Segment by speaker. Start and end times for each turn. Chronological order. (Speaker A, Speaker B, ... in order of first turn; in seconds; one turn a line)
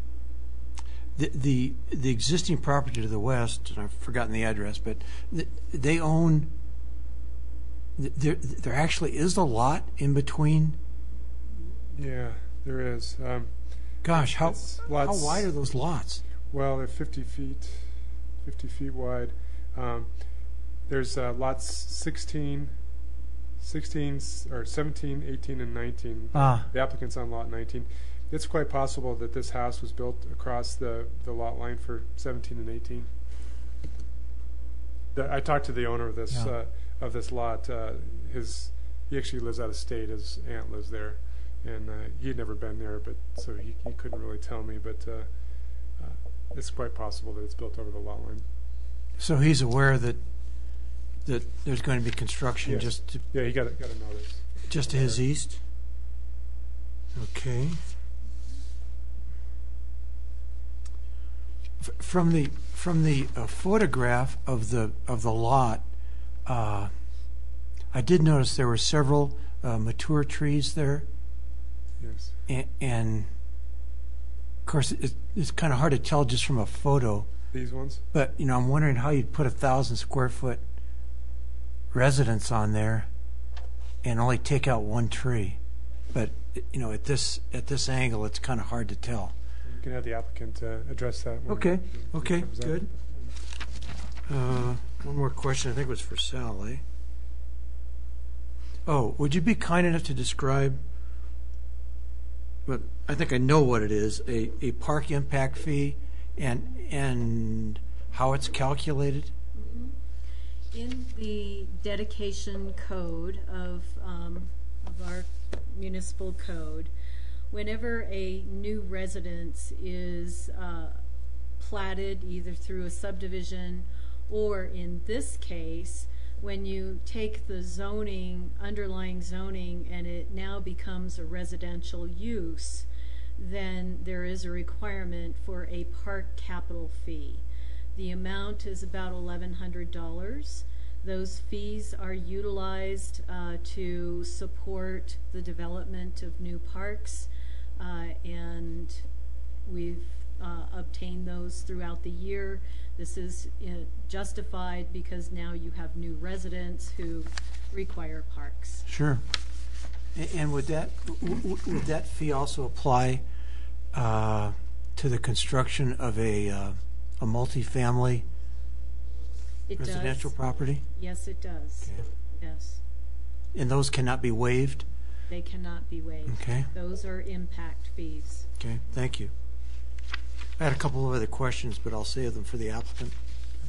Speaker A: 1.2-6.5
Speaker A: 8.0-10.8
Speaker B: 11.9-13.5
Speaker A: 14.0-16.2
Speaker B: 14.1-15.5
Speaker B: 16.5-17.9
Speaker B: 18.4-20.1
Speaker B: 20.9-22.7
Speaker B: 23.6-33.1
Speaker A: 26.3-26.7
Speaker B: 35.1-45.3
Speaker B: 46.0-48.4
Speaker A: 49.2-50.2
Speaker A: 51.2-53.2
Speaker B: 52.6-55.2
Speaker A: 54.7-55.6
Speaker A: 57.1-57.8
Speaker A: 61.8-65.8
Speaker A: 66.5-66.9
Speaker A: 67.9-71.1
Speaker B: 72.0-72.3
Speaker A: 72.5-73.3
Speaker A: 74.7-77.3
Speaker B: 77.5-78.0
Speaker A: 78.1-80.6
Speaker A: 81.9-83.1
Speaker A: 84.0-85.6
Speaker A: 86.1-89.3
Speaker B: 89.7-93.0
Speaker A: 91.5-92.9
Speaker A: 94.3-96.8
Speaker A: 98.9-100.8
Speaker A: 102.7-109.3
Speaker C: 109.5-110.0
Speaker C: 110.7-116.9
Speaker C: 117.5-121.0
Speaker C: 121.6-132.9
Speaker C: 133.4-137.4
Speaker C: 137.9-149.1
Speaker C: 149.7-158.9
Speaker A: 158.9-159.2
Speaker A: 160.2-163.2
Speaker A: 163.9-168.2
Speaker C: 169.7-170.4
Speaker A: 169.8-170.8
Speaker C: 170.9-172.8
Speaker A: 173.5-174.8
Speaker C: 175.3-178.5
Speaker A: 176.3-176.7
Speaker A: 178.6-179.3
Speaker A: 180.6-183.2